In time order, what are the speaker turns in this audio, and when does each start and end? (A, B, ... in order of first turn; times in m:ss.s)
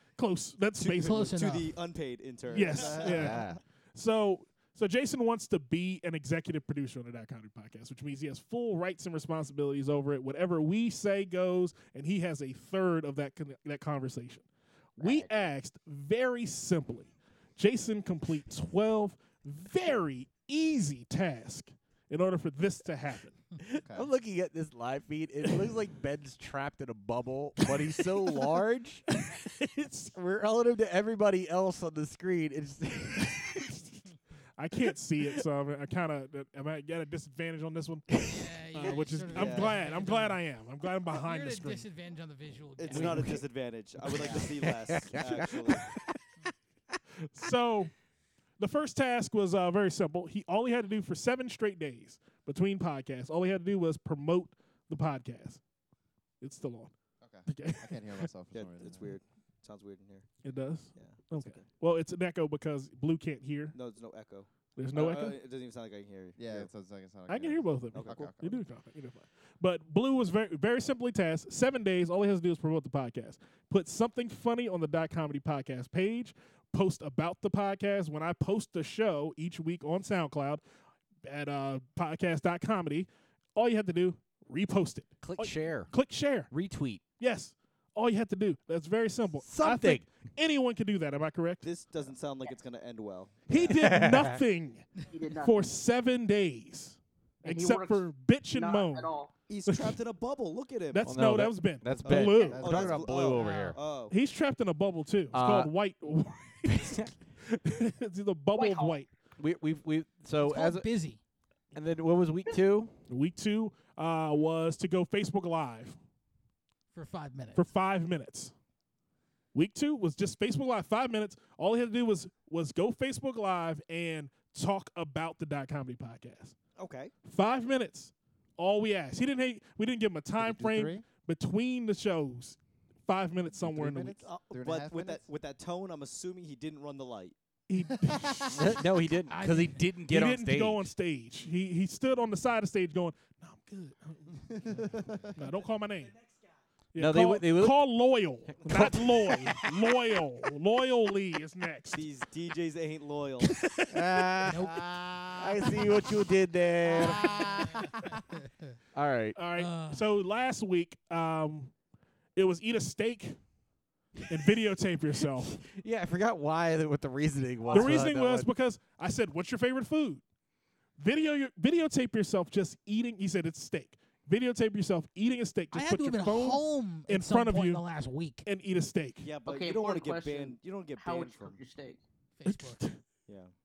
0:00.2-0:01.3 A
0:00.8-0:03.3 B
0:01.0-0:01.8 C
0:02.5-0:14.4 A
0:02.6-0:03.6 D
0:03.1-0:03.6 E
0:15.0-0:23.4 A
0:15.0-0:15.4 F
0:23.6-0:29.2 E
0:23.8-0:24.1 D
0:29.8-0:30.1 A
0:30.1-0:33.8 E
0:34.6-0:38.2 A
0:38.3-0:40.4 C
0:38.7-0:41.9 A
0:39.3-0:39.8 B
0:41.1-0:43.3 C
0:42.8-0:45.9 B
0:42.9-0:43.4 E
0:44.0-0:46.2 E
0:44.2-0:44.5 D
0:47.3-0:47.9 A
0:48.6-0:55.6 A
0:56.4-0:56.9 A
0:57.2-0:59.2 D
0:57.5-0:58.3 A
0:58.5-1:01.7 B
1:00.4-1:03.8 A
1:03.7-1:06.7 B
1:04.8-1:05.4 A
1:06.4-1:08.6 D
1:07.3-1:20.6 A
1:07.9-1:08.3 B
1:21.2-1:26.5 A
1:25.2-1:25.9 E
1:26.5-1:27.0 E
1:27.2-1:31.6 A
1:29.4-1:30.1 E
1:31.6-1:33.7 B
1:33.5-1:39.1 A
1:33.6-1:34.4 E
1:35.1-1:35.6 F
1:37.4-1:39.3 F
1:39.5-1:41.1 B
1:39.7-1:40.0 A
1:40.9-1:42.6 A
1:41.1-1:43.8 E
1:42.0-1:44.2 B
1:42.5-1:43.2 D
1:43.3-1:43.8 C
1:44.1-1:49.1 A
1:45.3-1:45.7 E
1:46.7-1:47.1 E
1:48.5-1:49.0 F
1:49.4-1:50.9 E
1:50.4-1:51.2 C
1:51.7-1:52.9 E
1:53.1-1:56.0 A
1:56.9-1:57.6 C
1:57.6-1:58.5 A
1:59.5-2:06.6 A
2:06.8-2:07.1 B
2:07.2-2:14.2 A
2:10.4-2:11.0 D
2:13.6-2:15.2 D
2:14.2-2:17.4 B
2:17.7-2:18.6 A
2:18.0-2:18.6 D
2:18.5-2:20.9 E
2:19.3-2:19.9 C
2:20.1-2:26.2 A
2:24.5-2:25.4 D
2:26.9-2:32.0 A
2:27.0-2:27.8 E
2:28.5-2:29.7 E
2:31.9-2:33.5 B
2:33.9-2:36.0 D
2:34.0-2:34.7 E
2:34.5-2:34.9 C
2:35.4-2:38.0 E
2:36.8-2:38.7 C
2:37.0-2:38.1 D
2:39.0-2:39.4 E
2:39.4-2:41.7 A
2:39.5-2:40.0 C
2:42.4-2:43.4 A
2:44.3-2:45.6 A
2:45.5-2:48.5 E
2:47.6-2:48.0 F
2:47.7-2:50.2 A
2:51.0-2:57.9 A
2:55.7-2:58.5 C
2:58.4-2:59.3 A
2:59.2-3:01.6 B
2:59.4-3:02.0 F
3:02.4-3:02.9 C
3:02.5-3:03.0 A
3:03.3-3:03.5 B